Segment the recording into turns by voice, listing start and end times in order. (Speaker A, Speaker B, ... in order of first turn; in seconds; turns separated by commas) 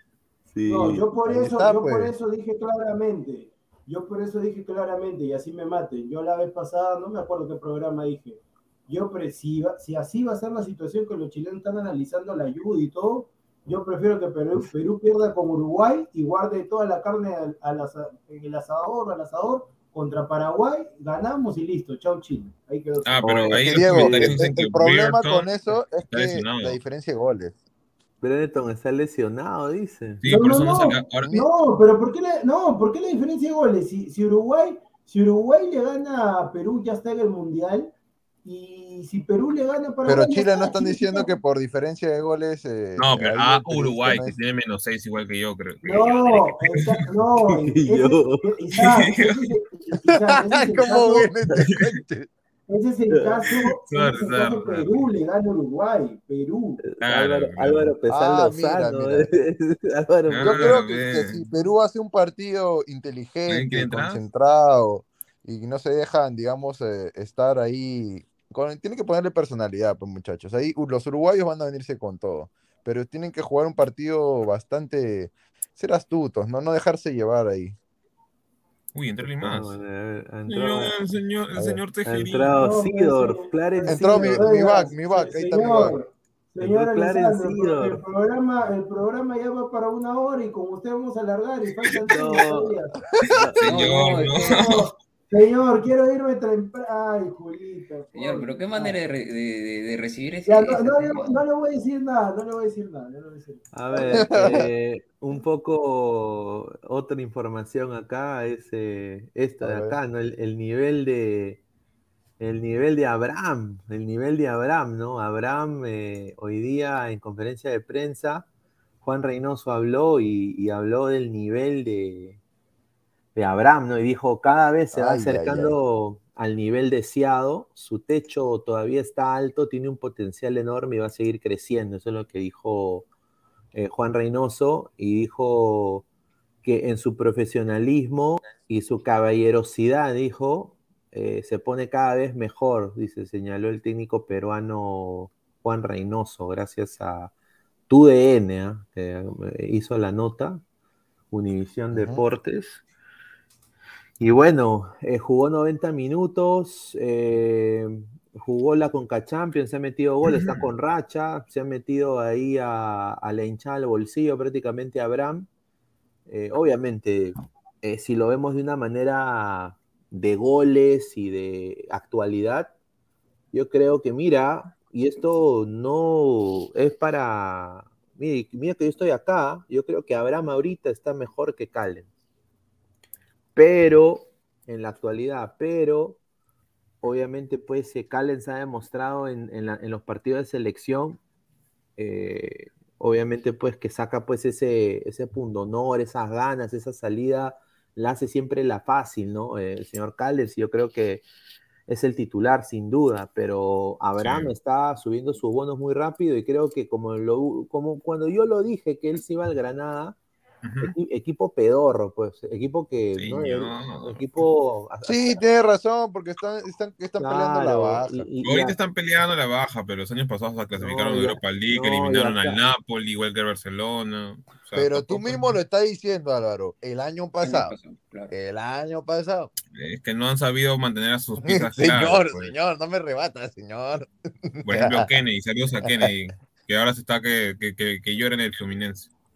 Speaker A: 0.5-1.1, Speaker B: 0.7-23.3, Speaker C: 1.2-2.1, Speaker D: 23.1-25.6, Speaker A: 23.2-24.4, Speaker C: 23.6-27.6, Speaker D: 26.1-26.8, Speaker A: 28.2-30.2, Speaker D: 30.2-31.3, Speaker B: 30.2-37.9, Speaker B: 38.4-41.3, Speaker C: 40.0-44.4, Speaker D: 43.0-47.0, Speaker B: 45.8-51.3, Speaker A: 47.5-48.5, Speaker D: 48.8-49.5, Speaker C: 50.1-52.3, Speaker B: 52.7-56.8, Speaker A: 53.1-53.4, Speaker D: 53.9-55.1, Speaker A: 56.9-60.8, Speaker D: 57.0-57.9, Speaker C: 58.1-59.3, Speaker D: 60.3-61.4, Speaker C: 60.4-77.8, Speaker D: 63.5-64.2, Speaker D: 79.0-79.8, Speaker A: 79.4-81.0, Speaker D: 80.5-82.6, Speaker C: 81.5-81.8, Speaker A: 82.1-84.4, Speaker B: 82.5-93.0, Speaker C: 83.9-86.0, Speaker A: 86.6-88.0, Speaker A: 92.1-92.8, Speaker A: 93.3-93.7, Speaker D: 93.6-94.9, Speaker E: 93.7-94.7, Speaker B: 94.4-99.0, Speaker E: 98.1-101.4, Speaker B: 100.5-104.3, Speaker A: 103.7-111.6, Speaker C: 104.1-104.7, Speaker C: 109.6-110.0, Speaker A: 112.4-118.5, Speaker A: 119.0-122.4, Speaker A: 123.3-133.1, Speaker C: 124.9-125.7, Speaker A: 133.7-136.1, Speaker A: 136.6-147.3, Speaker A: 147.9-150.6, Speaker A: 151.3-152.8, Speaker C: 151.9-152.2, Speaker A: 154.2-165.5, Speaker D: 160.3-160.7, Speaker A: 166.3-172.7, Speaker A: 173.5-182.1, Speaker A: 183.6-186.2, Speaker A: 187.0-191.2, Speaker A: 192.0-201.2, Speaker A: 201.9-210.2, Speaker D: 204.2-204.5, Speaker D: 210.6-210.9, Speaker A: 210.8-215.4, Speaker D: 213.2-214.3, Speaker C: 215.1-218.3, Speaker A: 217.2-218.8, Speaker D: 218.4-225.6, Speaker A: 220.8-222.6, Speaker C: 224.7-227.8, Speaker E: 227.4-228.3, Speaker C: 228.3-229.5, Speaker D: 229.7-232.5, Speaker C: 231.4-235.1, Speaker D: 234.6-239.1